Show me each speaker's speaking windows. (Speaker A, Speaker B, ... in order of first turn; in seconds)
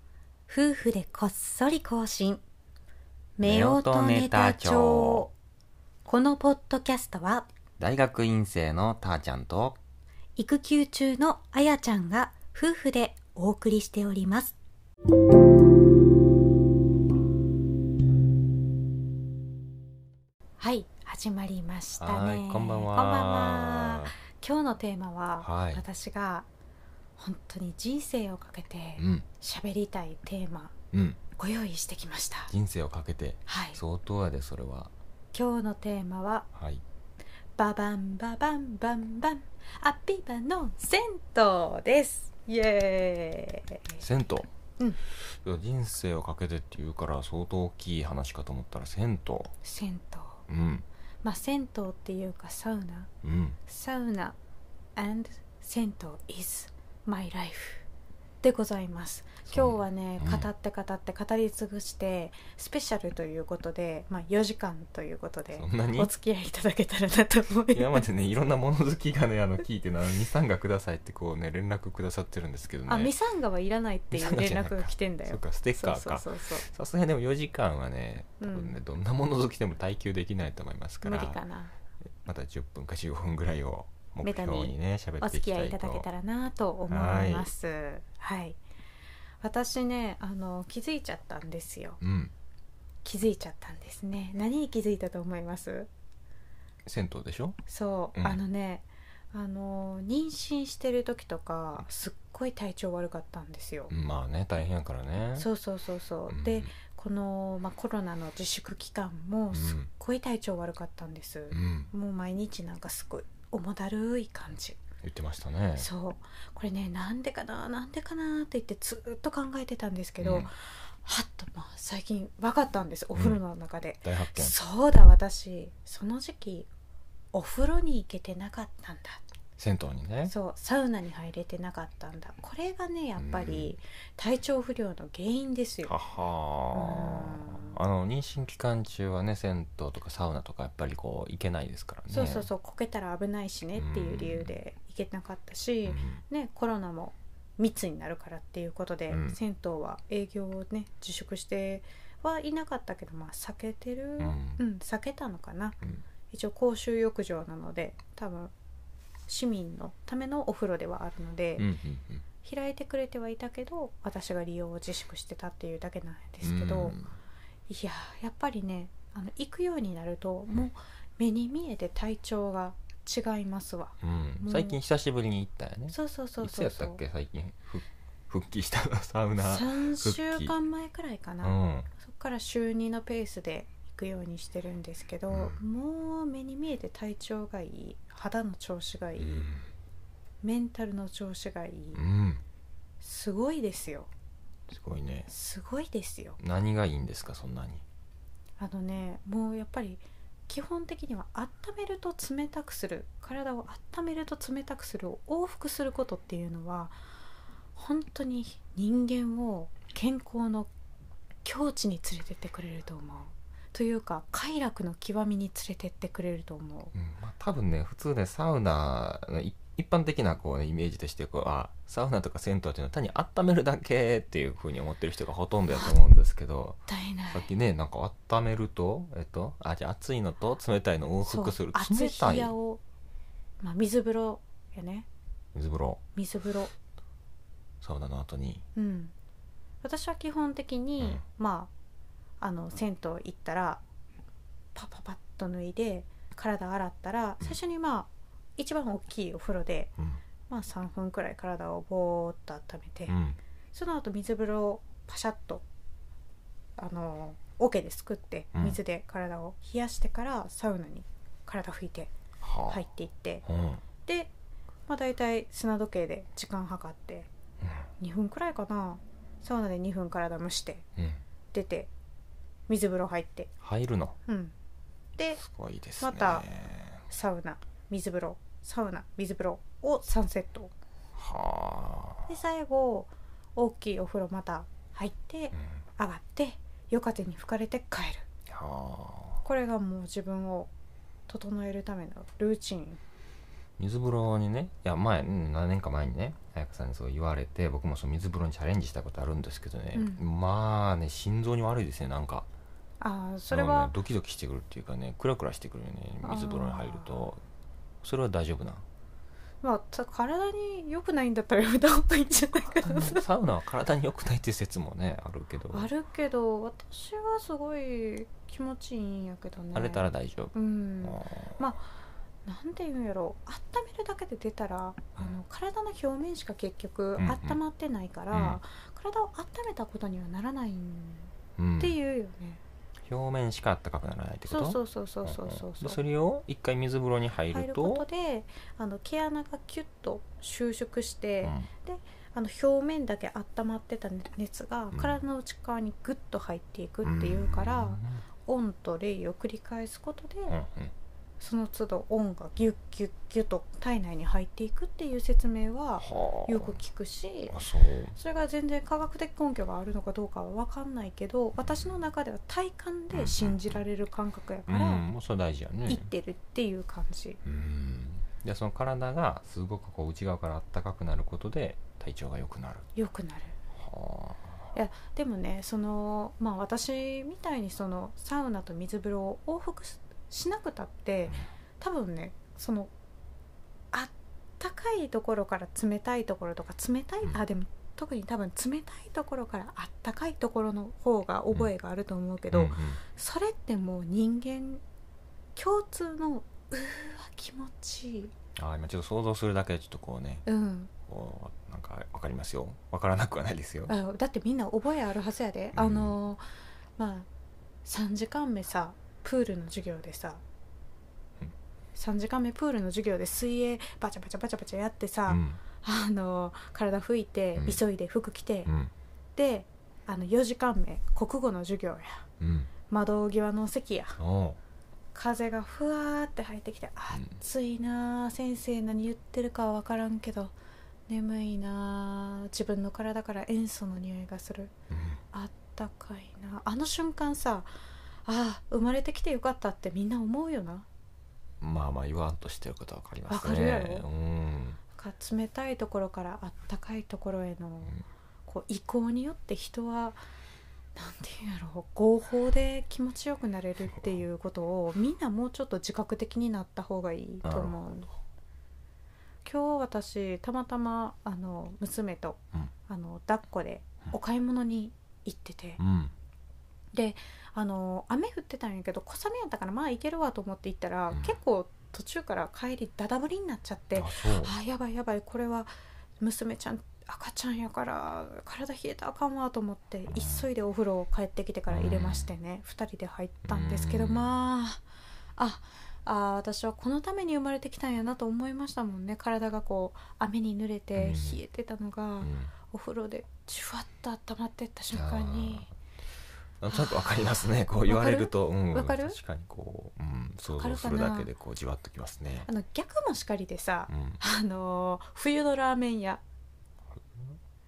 Speaker A: 0.5-2.4, 3.4-5.3, 6.0-7.5, 10.4-14.6, 20.6-26.5, 27.2-30.7, 31.3-32.5, 33.5-33.8, 35.3-36.5, 37.6-44.0, 49.6-50.4, 51.2-53.1, 53.7-54.4, 55.0-57.9, 58.4-68.0, 72.9-76.7, 78.4-78.7, 81.0-81.7, 84.2-88.6, 89.4-92.0, 93.0-95.9, 97.7-103.9, 105.3-114.8, 115.8-126.7, 127.3-129.2, 130.2-135.9, 136.7-137.8, 142.1-155.8, 156.3-158.5, 159.3-161.7, 162.4-167.0, 167.7-174.8, 175.9-177.0, 179.4-189.5, 190.4-192.0, 193.0-194.1, 195.3-196.4, 198.6-206.9, 207.8-210.7, 211.4-216.9, 226.9-227.5, 231.2-232.8, 233.6-235.1, 236.1-236.7, 238.7-239.1, 239.8-241.7, 242.4-243.8, 244.7-249.9, 250.5-253.2, 253.7-255.6, 256.8-262.1, 262.7-263.4, 264.0-264.3, 264.9-267.3, 268.0-270.9, 271.5-271.9, 272.7-273.5, 274.2-274.5, 276.0-276.5, 277.1-280.7, 282.3-288.2, 289.4-290.7, 291.3-293.0, 299.9-300.2, 303.0-303.9, 306.2-307.2, 309.6-313.2, 315.7-321.9, 322.4-332.6, 334.5-336.0, 337.5-350.6, 351.4-357.6, 358.1-365.1, 365.9-367.4, 372.9-373.6, 374.7-382.9, 383.9-394.8, 395.6-398.3, 400.4-400.9, 403.9-406.4, 407.0-407.3, 407.9-410.4, 411.9-418.7, 419.4-422.2, 422.9-424.2, 425.1-430.5, 431.1-434.7, 435.3-437.7, 438.2-440.9, 443.3-444.1, 444.9-450.2, 450.9-458.1, 459.4-465.8, 466.9-484.8, 485.4-495.7, 496.7-497.2, 497.8-499.2, 500.6-501.3, 502.4-506.2
Speaker B: 3.4-5.3, 7.8-9.8, 22.0-24.1, 25.4-25.8, 29.0-29.2, 30.9-31.2, 32.5-34.9, 36.5-36.8, 44.0-44.5, 45.0-49.5, 50.5-50.9, 53.2-53.6, 59.5-60.5, 65.5-66.1, 67.7-73.1, 74.1-81.4, 82.2-86.0, 86.9-87.5, 92.0-92.3, 96.8-97.6, 103.9-105.5, 106.3-106.7, 109.5-109.9, 111.5-111.9, 115.0-115.9, 120.2-120.5, 124.0-124.5, 129.6-130.3, 133.2-133.7, 135.8-142.5, 143.8-144.5, 145.8-146.2, 149.1-149.4, 154.2-154.6, 161.6-162.2, 166.4-167.1, 174.0-180.5, 181.4-181.9, 185.3-185.6, 189.2-189.6, 191.9-192.4, 194.7-195.3, 196.4-197.8, 216.9-232.5, 235.5-236.0, 237.8-238.6, 253.1-253.4, 262.4-262.8, 263.4-263.8, 267.6-267.9, 273.6-274.1, 275.4-277.0, 281.1-282.3, 288.5-289.4, 293.8-302.5, 303.5-307.4, 308.0-308.8, 312.8-315.9, 319.7-321.6, 327.2-327.6, 328.3-328.6, 331.6-332.0, 333.0-338.1, 341.4-341.7, 344.9-345.2, 347.0-348.2, 350.5-350.9, 356.0-356.8, 357.5-358.1, 363.1-363.8, 364.7-366.1, 367.4-372.9, 373.7-374.7, 392.5-393.0, 398.6-400.4, 401.1-403.9, 405.7-406.1, 415.3-415.6, 418.6-418.9, 422.4-422.7, 424.2-424.6, 434.9-435.2, 441.6-444.8, 457.4-457.8, 465.8-466.1, 471.1-471.4, 473.9-474.5, 480.1-480.4, 481.7-482.3, 483.4-484.3, 490.9-491.4, 492.2-492.5, 494.9-495.7, 496.6-502.5, 503.9-504.2, 506.9-507.3